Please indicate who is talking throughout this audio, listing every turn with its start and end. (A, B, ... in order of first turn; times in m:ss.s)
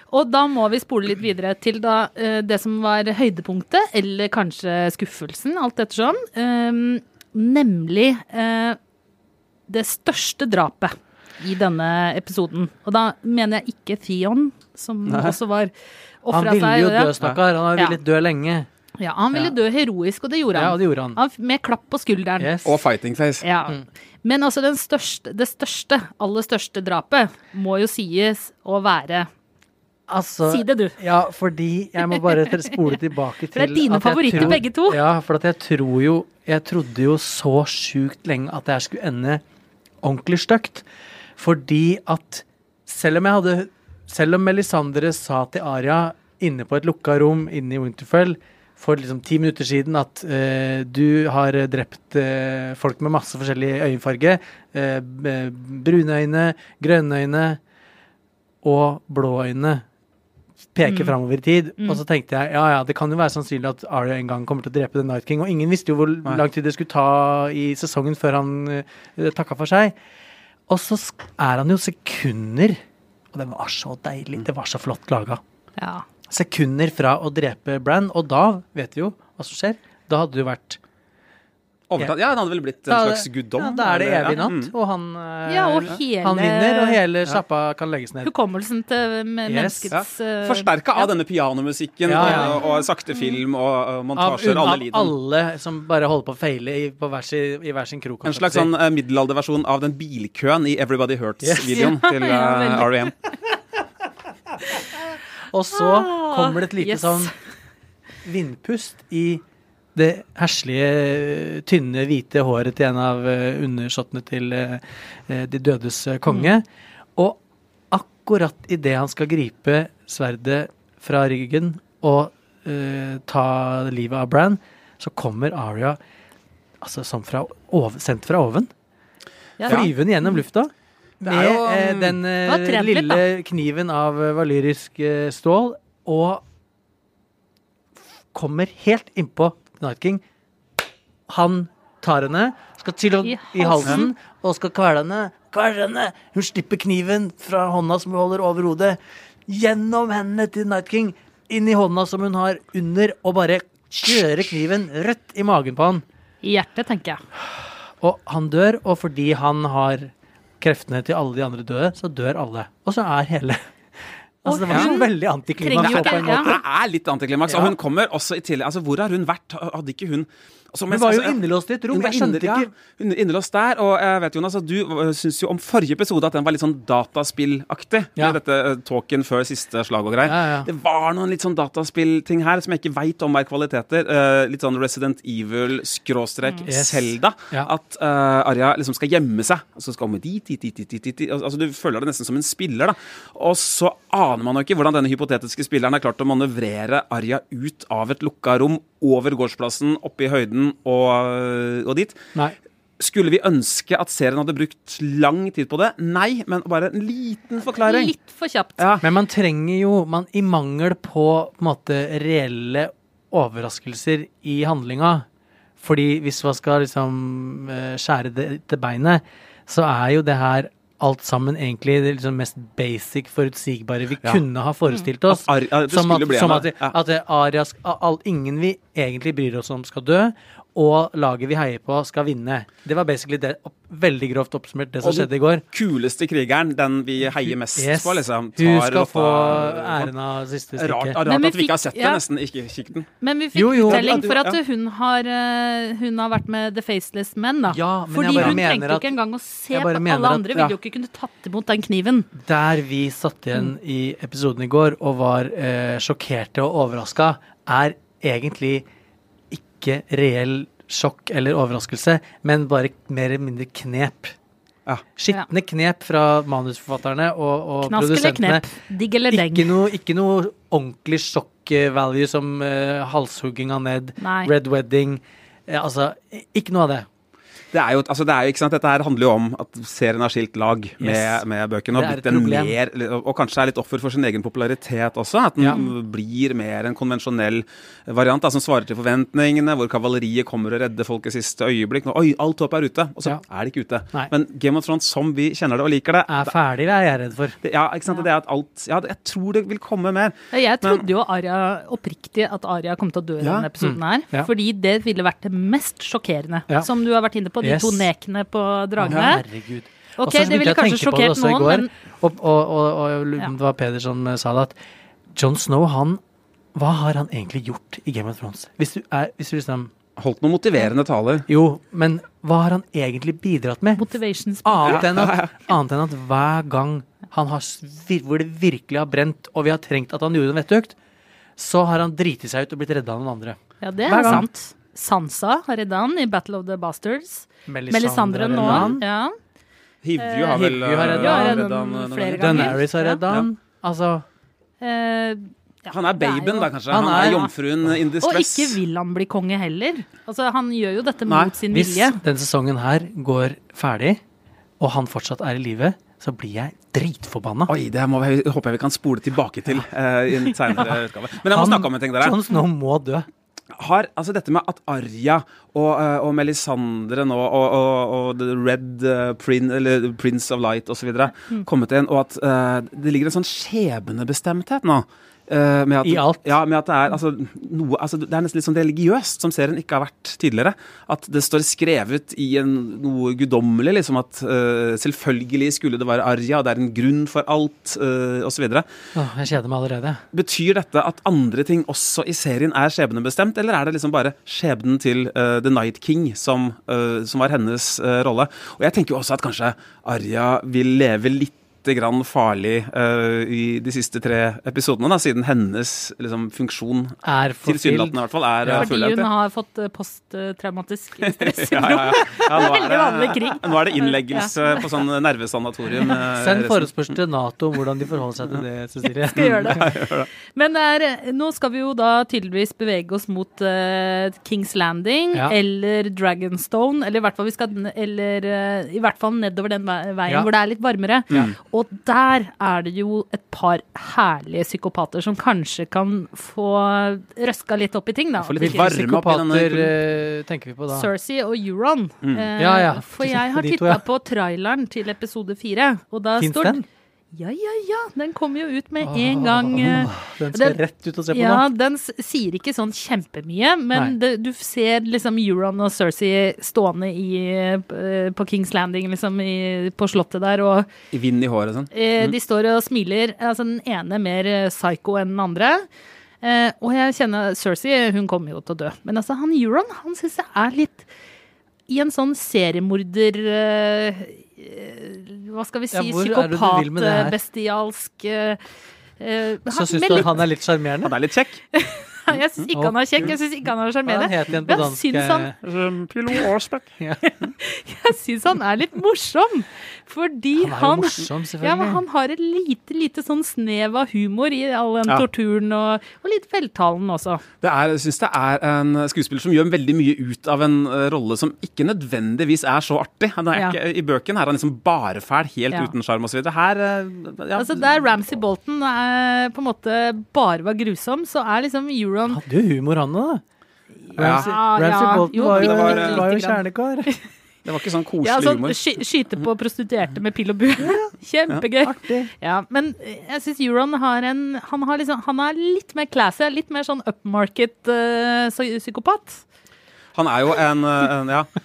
0:00.1-0:08.8 A
0:09.7-0:17.1 A
0:15.1-0:15.4 B
0:16.3-0:18.7 C
0:19.0-0:22.6 A
0:20.5-0:21.2 C
0:22.4-0:22.7 C
0:22.6-0:23.4 B
0:23.4-0:29.3 A
0:30.1-0:39.4 C
0:30.5-0:31.0 A
0:33.5-0:35.0 A
0:40.0-0:40.8 C
0:41.4-0:57.6 C
0:58.6-0:59.8 C
1:00.7-1:10.0 C
1:00.8-1:01.1 A
1:10.7-1:12.8 C
1:13.3-1:15.4 C
1:15.8-1:16.0 A
1:16.3-1:20.8 C
1:21.9-1:24.7 B
1:22.9-1:28.3 C
1:25.5-1:27.0 A
1:28.2-1:31.1 A
1:29.4-1:29.9 C
1:29.9-1:35.1 B
1:32.0-1:32.6 C
1:32.2-1:33.4 A
1:34.2-1:38.7 C
1:38.2-1:43.1 B
1:41.4-1:41.9 C
1:41.7-1:42.9 A
1:45.5-1:47.3 C
1:45.7-1:47.3 A
1:48.2-1:49.4 C
1:49.9-1:56.6 C
1:56.3-1:56.5 A
1:57.9-2:06.0 C
2:06.8-2:08.7 C
2:09.6-2:10.4 A
2:09.6-2:16.4 C
2:11.2-2:12.2 B
2:12.4-2:13.2 A
2:18.3-2:20.2 C
2:21.3-2:36.0 C
2:23.2-2:24.1 A
2:36.4-2:37.2 A
2:37.4-2:46.6 C
2:44.4-2:46.5 A
2:45.8-3:22.2 B
2:47.5-2:47.7 C
2:50.9-2:52.7 C
3:00.2-3:00.7 C
3:06.7-3:07.7 C
3:23.0-3:28.1 B
3:27.7-3:28.8 A
3:28.8-3:29.0 B
3:29.0-3:35.2 C
3:35.8-3:55.6 C
3:45.3-3:46.9 B
3:55.0-4:00.1 B
3:57.2-4:01.2 C
4:00.7-4:03.1 B
4:01.2-4:02.2 A
4:03.2-4:12.3 A
4:03.5-4:04.3 C
4:03.8-4:04.6 B
4:07.7-4:09.2 C
4:09.7-4:10.7 C
4:12.3-4:18.8 C
4:19.5-4:24.3 C
4:25.2-4:28.7 C
4:27.8-4:29.8 A
4:29.3-4:37.1 C
4:34.2-4:34.5 A
4:37.7-4:56.5 B
4:41.0-4:42.7 C
4:56.3-4:57.6 C
4:57.6-5:01.0 B
5:00.5-5:09.4 A
5:03.4-5:03.7 B
5:03.8-5:04.5 C
5:07.6-5:08.1 C
5:09.0-5:14.7 C
5:10.2-5:11.9 A
5:15.3-5:16.2 C
5:16.7-5:19.9 C
5:20.2-5:21.5 B
5:21.5-5:24.1 C
5:24.0-5:25.0 A
5:24.6-5:31.0 C
5:24.9-5:25.5 B
5:31.6-5:34.5 C
5:33.8-5:39.3 A
5:37.7-5:39.0 C
5:38.6-5:39.0 B
5:40.0-5:43.5 B
5:40.2-5:43.2 A
5:40.5-5:41.7 C
5:42.3-5:44.2 C
5:44.8-5:47.5 A
5:45.9-5:48.8 B
5:46.9-5:48.0 C
5:48.2-5:52.2 A
5:51.3-5:51.5 B
5:51.7-5:54.2 C
5:54.8-5:57.7 C
5:57.7-6:02.4 B
6:00.7-6:03.3 C
6:03.7-6:28.8 B
6:16.0-6:16.5 C
6:29.1-6:30.2 C
6:30.3-6:49.3 B
6:47.2-6:48.9 C
6:48.8-6:54.8 A
6:51.2-6:56.9 B
6:56.3-6:59.8 C
6:59.3-7:18.9 A
6:59.3-7:00.3 B
7:11.3-7:11.6 B
7:18.4-7:19.9 B
7:18.6-7:21.1 C
7:20.9-7:26.8 A
7:22.6-7:24.0 C
7:26.4-7:26.8 C
7:27.3-7:30.8 A
7:29.0-7:31.6 C
7:31.3-7:40.9 A
7:41.1-7:42.3 B
7:41.9-7:45.9 A
7:46.4-7:51.1 A
7:51.9-7:58.6 A
7:55.9-7:57.4 C
7:59.2-8:00.4 A
7:59.7-8:01.1 C
8:01.0-8:01.6 B
8:01.7-8:05.5 A
8:02.7-8:03.3 C
8:04.0-8:05.6 C
8:05.6-8:07.0 B
8:07.2-8:17.4 A
8:10.6-8:12.0 C
8:17.6-8:28.4 B
8:27.6-8:32.4 A
8:32.3-8:33.4 C
8:34.1-8:37.2 A
8:34.1-8:37.1 C
8:34.2-8:34.5 B
8:35.3-8:36.3 B
8:37.6-8:39.4 B
8:38.2-8:49.4 A
8:40.8-8:41.1 C
8:41.8-8:42.3 C
8:50.1-8:51.5 B